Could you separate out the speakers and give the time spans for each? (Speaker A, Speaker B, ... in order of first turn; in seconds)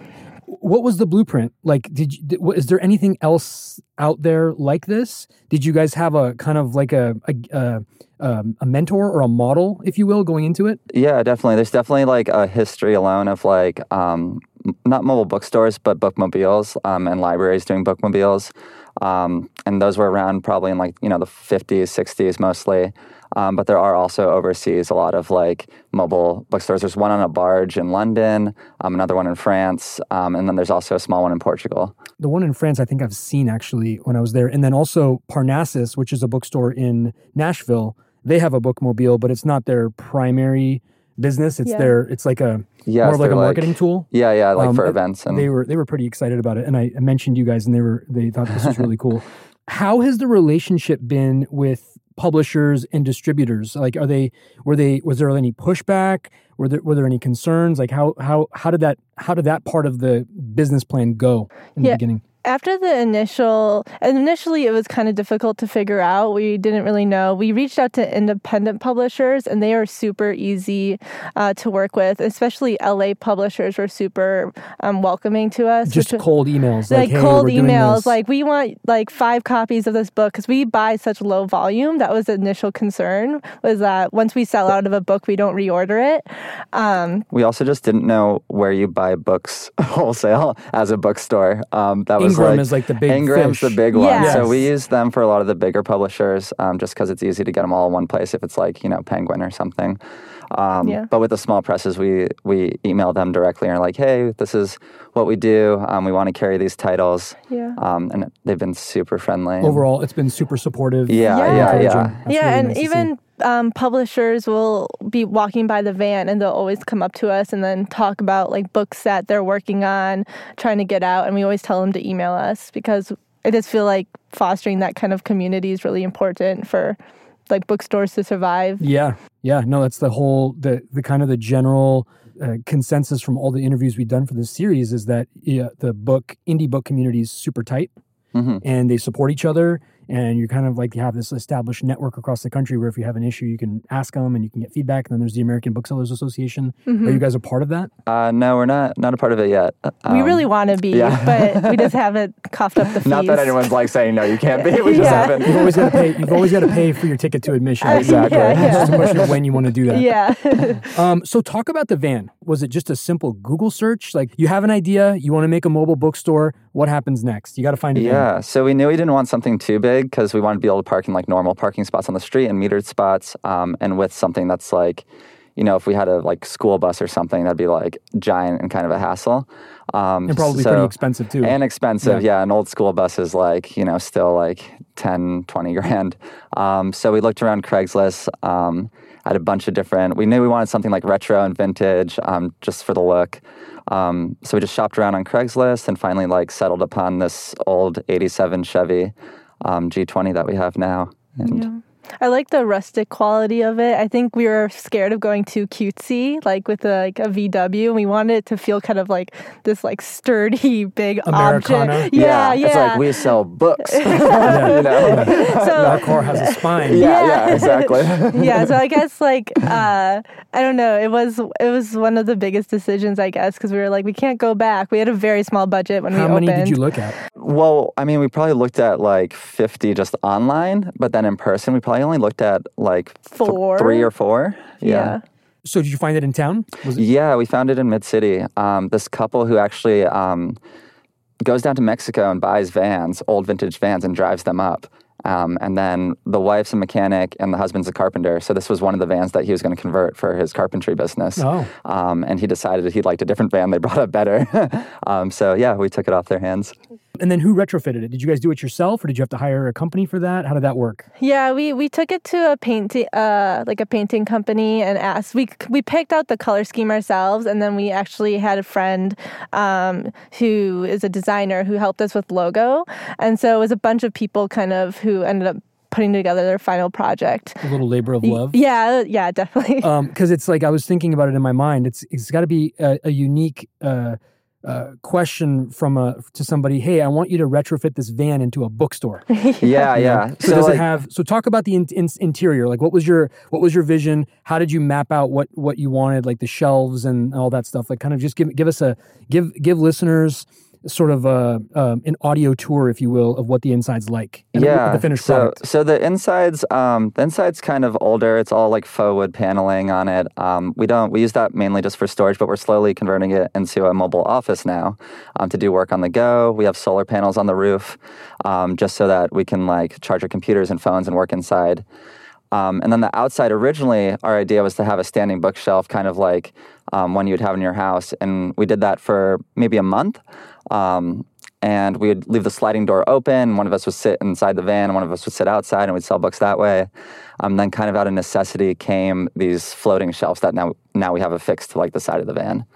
Speaker A: 0.5-10.8, 32.2-62.2, 75.8-78.2, 92.2-94.7, 109.6-113.1, 128.8-137.9, 138.6-147.9, 154.9-160.1, 160.9-168.3, 180.3-182.2, 211.3-212.1, 214.4-217.1, 226.1-227.2, 235.6-237.0, 251.3-251.7, 257.2-261.0, 277.6-278.6, 279.8-289.2, 289.9-305.6
Speaker B: 10.9-32.0, 42.9-45.5, 87.3-100.0, 100.5-109.8, 111.1-112.2, 138.3-138.6, 148.1-152.0, 153.0-156.1, 157.8-159.4, 167.9-175.0, 175.6-201.7, 212.1-216.2, 216.8-218.8, 227.3-235.2, 236.9-240.6, 241.4-256.7, 289.6-290.9, 304.5-321.8, 322.5-336.9, 337.4-342.6
Speaker C: 41.6-41.9, 61.8-76.2, 76.9-87.2, 93.9-94.5, 100.8-101.1, 107.5-107.8, 111.2-127.0, 127.5-128.8, 146.8-147.2, 150.1-153.7, 154.5-156.8, 157.8-159.3, 159.9-161.0, 201.4-213.3, 213.8-226.8, 233.3-234.1, 234.8-235.2, 261.2-277.6, 278.2-279.9, 289.3-289.9